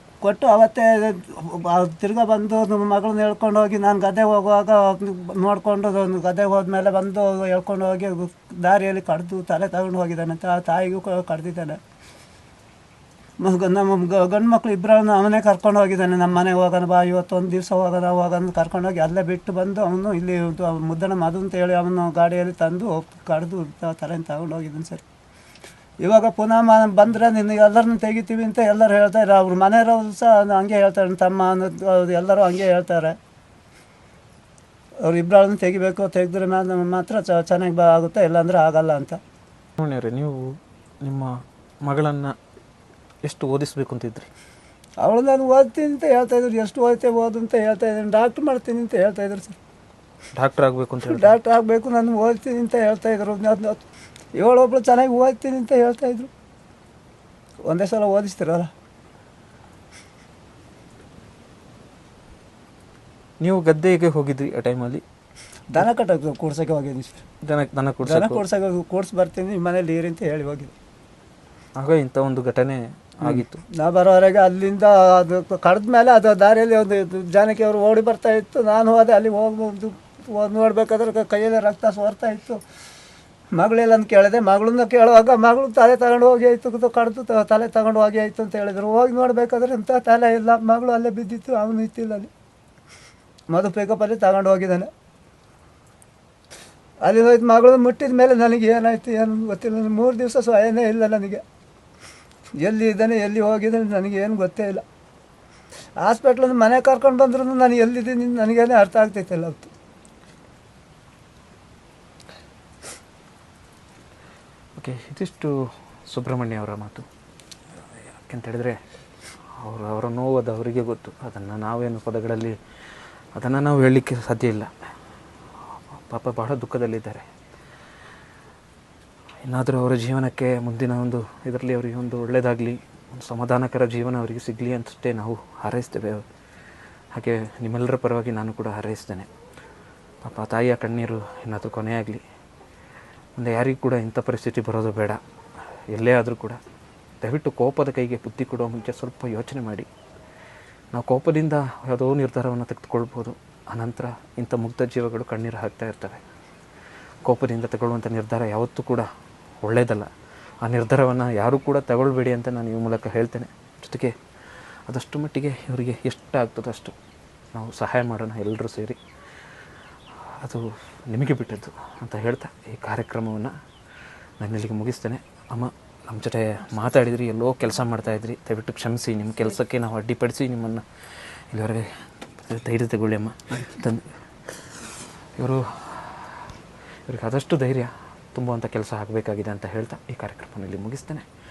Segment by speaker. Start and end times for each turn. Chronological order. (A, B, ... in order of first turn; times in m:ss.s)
0:00.2-0:11.8 A
0:13.4-0:25.0 A
0:26.0-0:33.2 A
0:35.1-0:39.2 A
0:39.8-0:42.4 B
0:43.2-0:44.3 B
0:45.0-0:49.6 A
0:50.4-0:51.4 B
0:51.0-0:53.8 A
0:54.4-0:56.3 A
0:57.7-0:58.7 A
1:03.4-1:05.0 B
1:05.7-1:07.2 A
1:07.4-1:08.4 B
1:08.0-1:10.7 A
1:11.8-1:13.6 B
1:13.2-1:22.6 A
1:23.6-1:32.3 A
1:33.5-1:34.9 A
1:37.0-1:41.4 A
1:42.6-1:44.8 A
1:46.0-1:49.7 A
1:54.8-1:55.5 B
1:56.1-1:57.1 B
1:58.2-1:58.8 B
1:59.6-2:02.6 B
2:03.4-2:04.7 B
2:05.9-2:07.3 B
2:09.4-2:16.2 B
2:17.1-2:19.3 B
2:20.2-2:22.2 B
2:23.4-2:25.2 B
2:25.9-2:26.6 B
2:27.2-2:29.9 B
2:30.9-2:36.2 B
2:37.2-2:39.1 B
2:39.6-2:40.1 B
2:40.6-2:44.1 B
2:44.9-2:47.0 B
2:47.5-2:49.0 B
2:50.4-2:53.5 B
2:54.4-3:00.8 B
3:01.5-3:04.1 B
3:05.4-3:06.4 B
3:07.1-3:11.3 B